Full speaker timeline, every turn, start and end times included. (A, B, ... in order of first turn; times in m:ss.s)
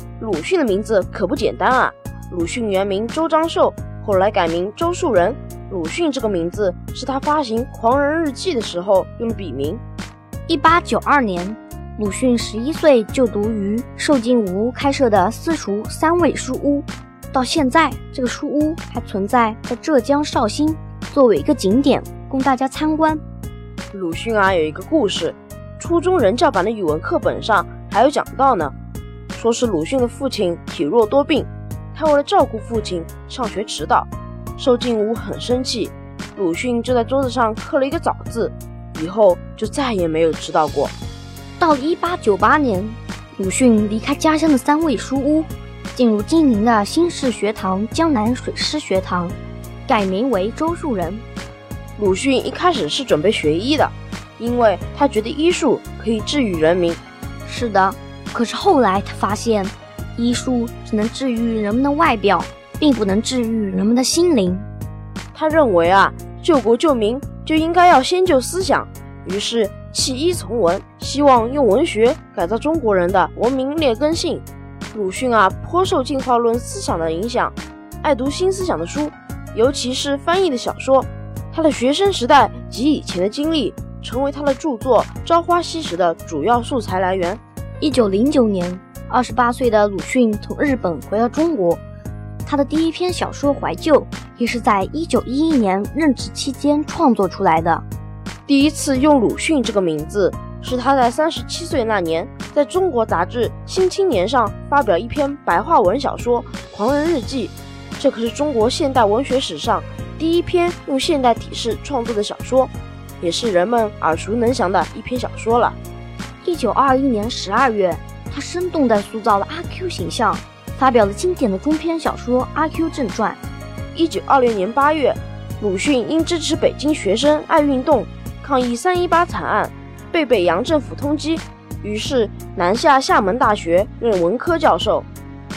0:00.2-0:09.8 A
0:10.5-0:23.2 B
0:23.9-0:28.7 A
0:29.4-0:40.9 A
0:41.6-0:51.2 B
0:52.0-0:57.0 A
0:57.4-1:04.7 B
1:05.3-1:27.4 A
1:27.8-1:31.8 B
1:32.4-1:37.8 B
1:38.5-1:55.8 A
1:56.4-2:03.4 B
2:03.9-2:15.1 A